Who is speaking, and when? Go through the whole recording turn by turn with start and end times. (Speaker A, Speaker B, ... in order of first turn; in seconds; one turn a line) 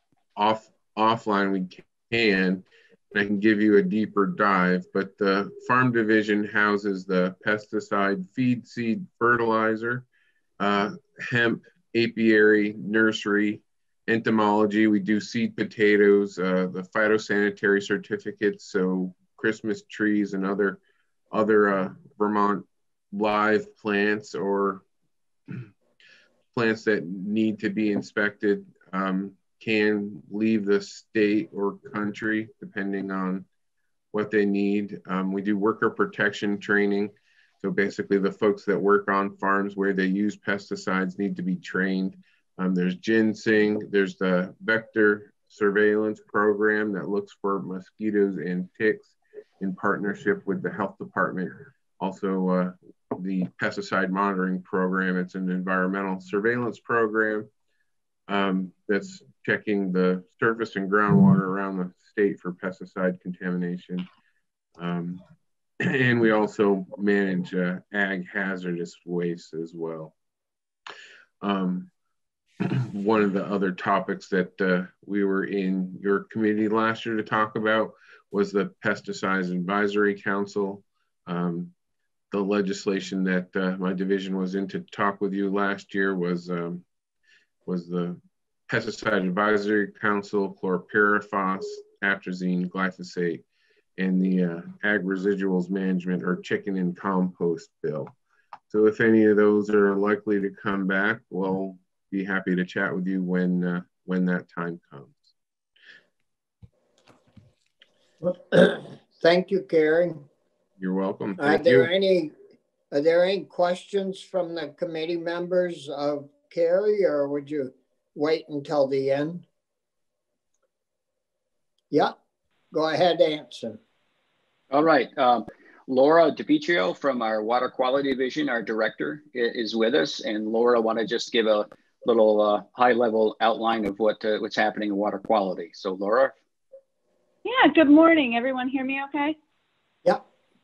Speaker A: 0.3-10.1
Speaker A: 10.6-20.8
Speaker A: 21.3-24.8
Speaker A: 26.5-33.5
Speaker A: 34.1-57.5
Speaker A: 58.3-64.1
Speaker A: 64.8-65.2
Speaker A: 65.8-70.1
Speaker A: 71.4-71.9
Speaker A: 72.7-81.7
Speaker A: 82.3-86.8
Speaker A: 87.7-93.4
Speaker A: 94.0-98.1
Speaker A: 98.7-105.3
Speaker B: 108.2-110.2
Speaker A: 110.8-111.9
Speaker B: 111.4-112.3
Speaker B: 112.9-119.4
Speaker B: 122.7-123.8
Speaker C: 124.7-136.3
Speaker D: 137.4-139.4